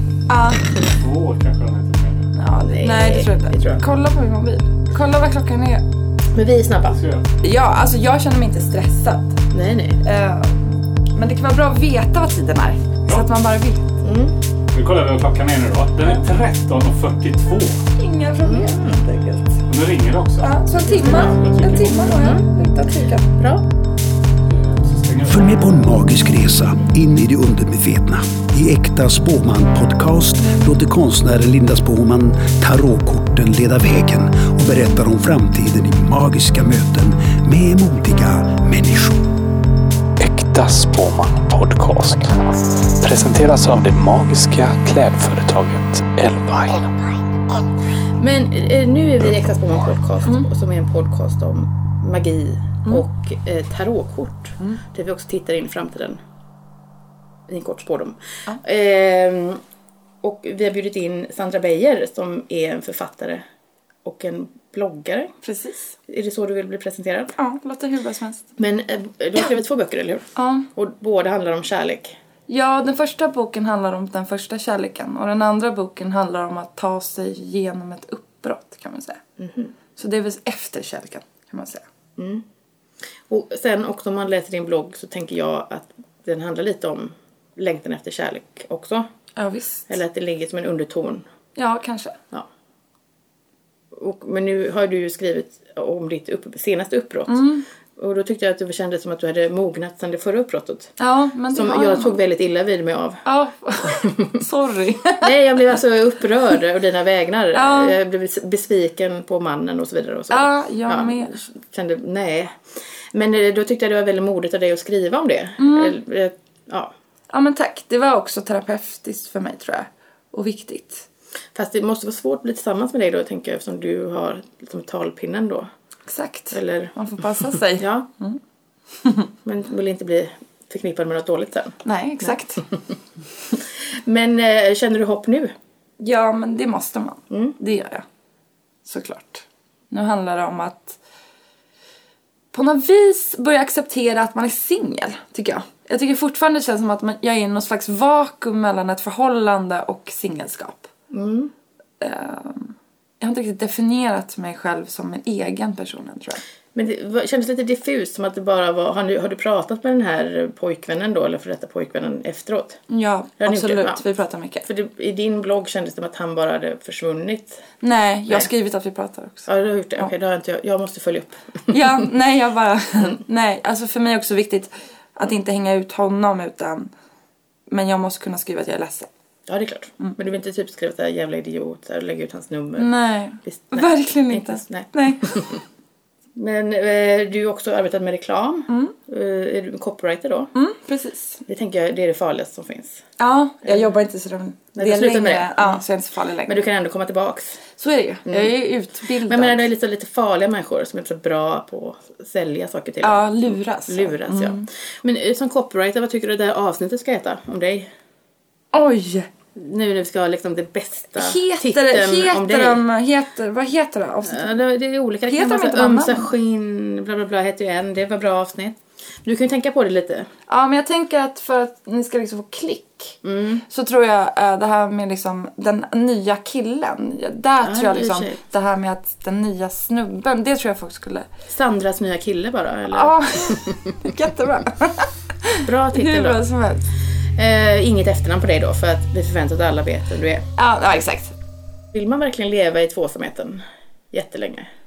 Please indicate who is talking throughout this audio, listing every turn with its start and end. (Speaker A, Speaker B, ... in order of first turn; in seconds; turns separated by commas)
Speaker A: 0.3-0.6, Speaker B: 0.9-2.3, Speaker A: 2.4-5.8, Speaker C: 2.6-3.8, Speaker C: 6.3-7.0, Speaker B: 6.9-7.3, Speaker A: 7.4-9.4, Speaker C: 9.5-10.0, Speaker A: 10.0-13.8, Speaker C: 14.0-14.3, Speaker B: 14.7-17.9, Speaker A: 18.0-19.7, Speaker C: 18.4-19.0, Speaker B: 19.7-22.3, Speaker A: 20.4-23.3, Speaker C: 20.9-21.4, Speaker C: 22.1-22.5, Speaker C: 23.4-23.6, Speaker B: 24.5-25.5, Speaker D: 25.3-39.2, Speaker E: 40.2-46.9, Speaker C: 48.2-56.2, Speaker C: 57.5-59.6, Speaker C: 60.2-63.4, Speaker C: 64.0-65.3, Speaker A: 65.4-65.9, Speaker C: 66.1-67.3, Speaker A: 67.4-68.5, Speaker C: 68.6-72.2, Speaker A: 70.4-70.7, Speaker A: 72.5-79.2, Speaker C: 79.4-79.7, Speaker A: 80.0-81.8, Speaker C: 82.2-82.4, Speaker C: 83.3-89.1, Speaker A: 89.4-90.0, Speaker C: 89.9-91.2, Speaker A: 91.6-92.2, Speaker C: 93.9-100.9, Speaker A: 97.3-97.6, Speaker A: 101.0-102.2, Speaker C: 101.5-103.2, Speaker A: 103.2-105.3, Speaker C: 103.8-104.4, Speaker C: 105.2-116.9, Speaker A: 107.5-108.0, Speaker A: 110.3-111.4, Speaker A: 115.6-116.0, Speaker A: 117.3-121.0, Speaker C: 121.5-125.7, Speaker A: 126.1-128.4, Speaker C: 126.5-126.9, Speaker C: 127.8-128.1, Speaker C: 129.4-132.4, Speaker A: 131.8-132.6, Speaker C: 134.0-135.5, Speaker A: 136.0-138.0, Speaker C: 137.3-137.6, Speaker A: 138.8-141.0, Speaker A: 142.5-150.9, Speaker C: 151.1-151.5, Speaker A: 152.0-156.4, Speaker C: 156.8-162.8, Speaker A: 162.9-164.7, Speaker C: 163.4-164.0, Speaker C: 164.7-167.6, Speaker A: 167.8-169.5, Speaker C: 169.5-172.0, Speaker A: 171.7-176.9, Speaker A: 177.7-179.1, Speaker C: 179.5-182.9, Speaker A: 182.8-185.3, Speaker C: 183.4-185.6, Speaker C: 186.4-190.5, Speaker A: 188.7-188.9, Speaker A: 190.6-191.4, Speaker C: 191.5-193.0, Speaker A: 193.2-196.6, Speaker C: 194.8-195.8, Speaker C: 196.5-197.6, Speaker A: 197.8-199.7, Speaker C: 198.3-198.5, Speaker C: 199.3-207.9, Speaker A: 203.0-204.7, Speaker A: 208.7-209.3, Speaker C: 209.6-212.8, Speaker A: 211.2-214.5, Speaker C: 214.2-220.3, Speaker A: 215.3-216.3, Speaker A: 220.5-231.3, Speaker C: 223.2-223.6, Speaker C: 227.6-228.4, Speaker C: 231.5-233.9, Speaker A: 232.9-236.8, Speaker C: 235.6-236.4, Speaker C: 237.4-240.5, Speaker A: 240.6-241.3, Speaker C: 241.9-244.7